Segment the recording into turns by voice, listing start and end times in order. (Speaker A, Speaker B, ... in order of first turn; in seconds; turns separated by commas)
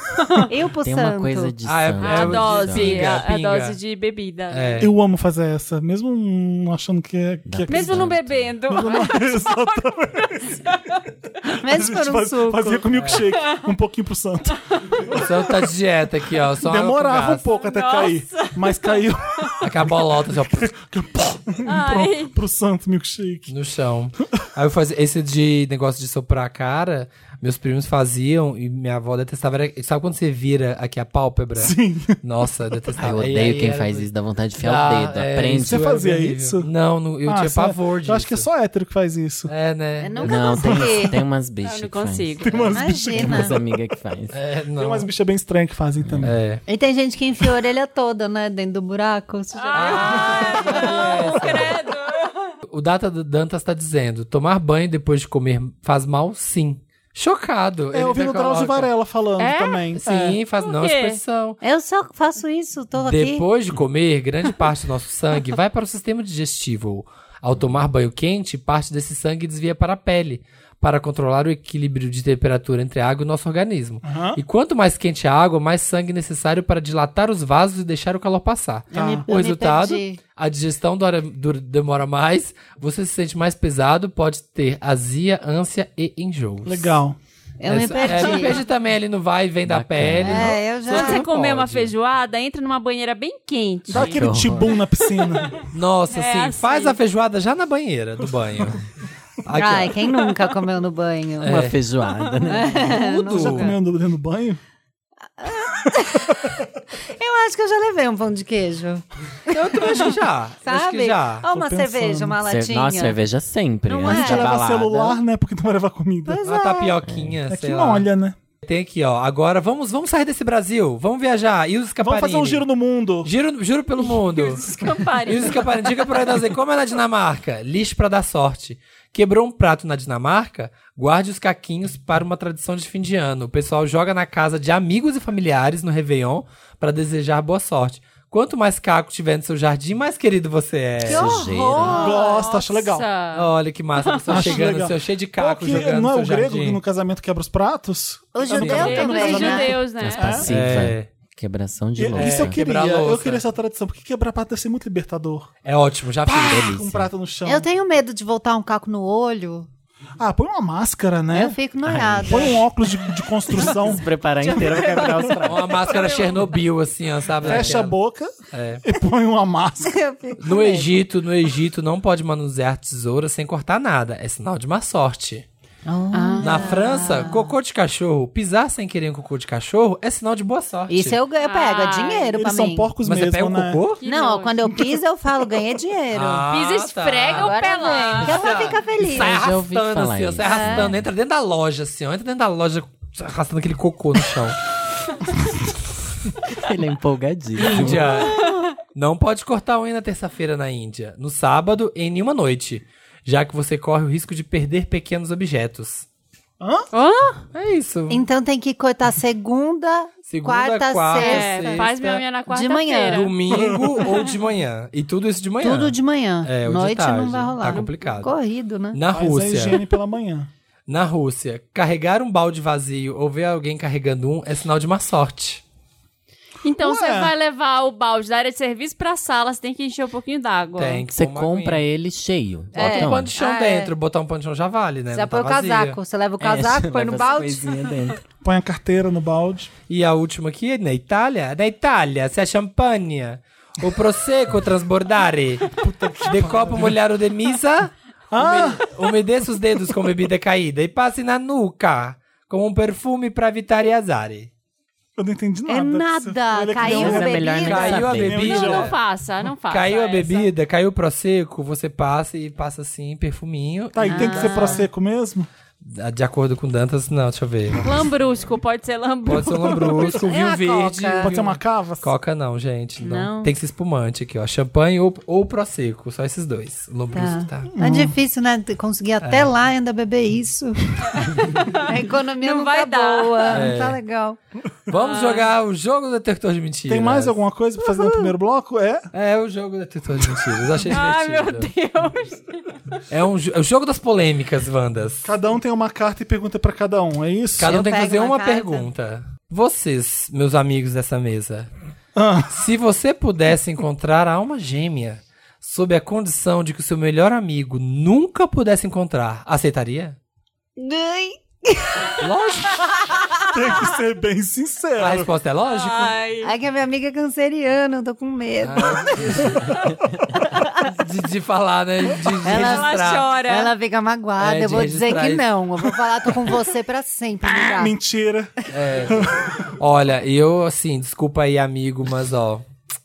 Speaker A: 0.2-0.5, Speaker B: 0.5-1.5, Speaker C: 0.8-3.2, Speaker D: 1.6-3.8, Speaker A: 2.0-4.9, Speaker D: 4.5-4.9, Speaker E: 4.8-10.7, Speaker C: 7.5-8.6, Speaker A: 7.7-11.0, Speaker E: 11.6-15.3, Speaker B: 11.6-12.9, Speaker D: 12.9-13.3, Speaker A: 13.4-13.6, Speaker D: 15.1-17.5, Speaker E: 16.6-23.5, Speaker A: 17.5-19.6, Speaker D: 19.6-20.7, Speaker A: 21.6-22.4, Speaker D: 23.5-34.1, Speaker E: 31.6-32.2, Speaker C: 33.0-35.9, Speaker D: 34.6-38.5, Speaker E: 35.6-36.7, Speaker E: 37.2-39.5, Speaker D: 39.5-40.5, Speaker B: 40.0-41.2, Speaker C: 40.2-44.4, Speaker E: 40.6-40.9, Speaker A: 41.6-42.9, Speaker E: 42.4-43.6, Speaker B: 42.7-43.5, Speaker D: 44.3-45.1, Speaker E: 44.8-46.4, Speaker D: 46.2-46.6, Speaker B: 46.7-50.9, Speaker A: 49.5-52.5, Speaker D: 49.7-51.8, Speaker D: 52.7-58.9, Speaker E: 57.9-60.4, Speaker A: 59.4-59.9, Speaker D: 60.0-61.6, Speaker A: 60.6-61.2, Speaker B: 61.6-63.5, Speaker D: 63.0-87.0, Speaker E: 74.0-74.4, Speaker E: 78.9-79.3, Speaker B: 78.9-80.2, Speaker E: 86.7-87.2, Speaker B: 87.6-88.6, Speaker D: 87.7-91.9, Speaker A: 88.2-88.6, Speaker C: 89.7-90.6, Speaker B: 90.2-91.2, Speaker A: 90.8-94.2, Speaker E: 93.9-95.7, Speaker C: 93.9-94.8, Speaker A: 95.0-97.0, Speaker D: 95.7-98.9, Speaker D: 99.4-100.2, Speaker B: 99.5-101.6, Speaker D: 101.4-101.8, Speaker C: 101.4-103.0, Speaker B: 102.5-103.8, Speaker D: 102.8-103.8, Speaker E: 103.3-104.6, Speaker B: 105.4-106.5, Speaker B: 107.1-110.1, Speaker D: 109.5-111.5, Speaker B: 110.6-113.2, Speaker E: 111.5-112.4, Speaker C: 112.4-115.2, Speaker B: 113.9-114.6, Speaker E: 114.0-116.4, Speaker B: 116.3-117.0, Speaker D: 116.5-118.1, Speaker C: 117.0-117.4, Speaker E: 117.5-118.4, Speaker D: 118.6-122.7, Speaker E: 122.0-123.3, Speaker D: 123.2-141.5, Speaker A: 124.0-126.1, Speaker C: 141.0-142.0, Speaker B: 141.0-142.4, Speaker A: 141.8-144.6, Speaker E: 141.9-143.1, Speaker D: 143.3-146.8, Speaker E: 144.3-150.5, Speaker B: 148.3-149.8, Speaker D: 148.5-149.1, Speaker A: 148.6-150.4, Speaker C: 150.0-152.6, Speaker D: 150.5-151.1, Speaker E: 152.0-155.5, Speaker D: 152.2-153.4, Speaker D: 155.7-156.7, Speaker C: 156.3-157.1, Speaker E: 156.3-157.7, Speaker B: 157.5-159.7, Speaker E: 160.2-161.6, Speaker B: 161.3-162.7, Speaker C: 161.8-162.6, Speaker E: 162.2-165.4, Speaker C: 163.5-165.9, Speaker D: 165.4-168.0, Speaker E: 167.4-170.0, Speaker C: 167.5-167.8, Speaker D: 168.5-168.8, Speaker B: 169.8-170.9, Speaker D: 170.4-175.5, Speaker B: 175.9-177.5, Speaker A: 176.1-177.2, Speaker D: 176.4-181.2, Speaker B: 180.9-182.9, Speaker A: 181.4-182.4, Speaker E: 182.3-183.8, Speaker D: 183.0-184.0, Speaker A: 184.0-184.6, Speaker B: 184.1-186.4, Speaker D: 186.1-187.6, Speaker A: 186.5-188.4, Speaker B: 187.3-189.5, Speaker D: 188.2-194.6, Speaker C: 189.1-191.0, Speaker B: 190.4-191.0, Speaker C: 196.5-198.2, Speaker D: 197.6-206.1, Speaker B: 198.2-198.5, Speaker A: 198.2-198.7, Speaker E: 206.6-206.9, Speaker A: 206.9-207.4, Speaker D: 207.5-208.2, Speaker B: 208.1-211.9, Speaker D: 210.3-212.2, Speaker A: 211.2-213.3, Speaker B: 212.5-213.3, Speaker D: 213.1-218.3, Speaker E: 213.5-214.2, Speaker B: 215.6-219.0, Speaker A: 217.7-218.1, Speaker D: 218.9-219.8, Speaker E: 219.1-220.5, Speaker D: 220.9-225.6, Speaker A: 226.6-231.1, Speaker E: 226.8-227.3, Speaker D: 230.8-231.8, Speaker C: 231.1-233.3, Speaker B: 232.7-233.9, Speaker D: 232.8-236.0, Speaker B: 235.1-237.8, Speaker C: 236.4-238.2, Speaker E: 238.4-239.7, Speaker D: 239.9-245.8, Speaker E: 245.7-247.0, Speaker D: 246.3-254.5, Speaker E: 248.3-248.9, Speaker E: 255.2-258.9, Speaker B: 255.7-258.1, Speaker C: 256.8-258.6, Speaker D: 257.6-259.0, Speaker A: 258.4-260.5, Speaker D: 259.7-264.8, Speaker E: 263.9-265.5, Speaker B: 264.1-264.9, Speaker D: 265.8-267.9, Speaker A: 267.8-270.2, Speaker D: 269.3-277.7, Speaker B: 270.2-271.4, Speaker E: 271.2-272.1, Speaker B: 273.0-273.5, Speaker B: 277.1-284.4, Speaker E: 277.7-278.1, Speaker D: 279.2-279.5, Speaker A: 281.1-283.7, Speaker D: 283.5-284.0, Speaker D: 284.9-287.4, Speaker A: 284.9-285.5, Speaker E: 286.9-289.1, Speaker B: 287.8-288.3, Speaker D: 289.1-291.7, Speaker A: 290.9-292.8, Speaker D: 293.1-295.3, Speaker E: 295.2-297.8, Speaker D: 297.6-301.7, Speaker B: 297.6-298.9, Speaker E: 302.2-302.5, Speaker D: 302.5-310.2, Speaker B: 310.8-313.4, Speaker D: 312.2-312.9, Speaker E: 313.5-315.3, Speaker D: 315.0-316.1, Speaker A: 315.7-316.5, Speaker B: 316.4-319.6, Speaker D: 318.6-319.8, Speaker B: 320.4-320.7, Speaker D: 320.8-323.3, Speaker B: 322.4-327.9, Speaker A: 322.5-323.7, Speaker D: 324.4-325.5, Speaker E: 327.4-329.6, Speaker D: 328.7-332.7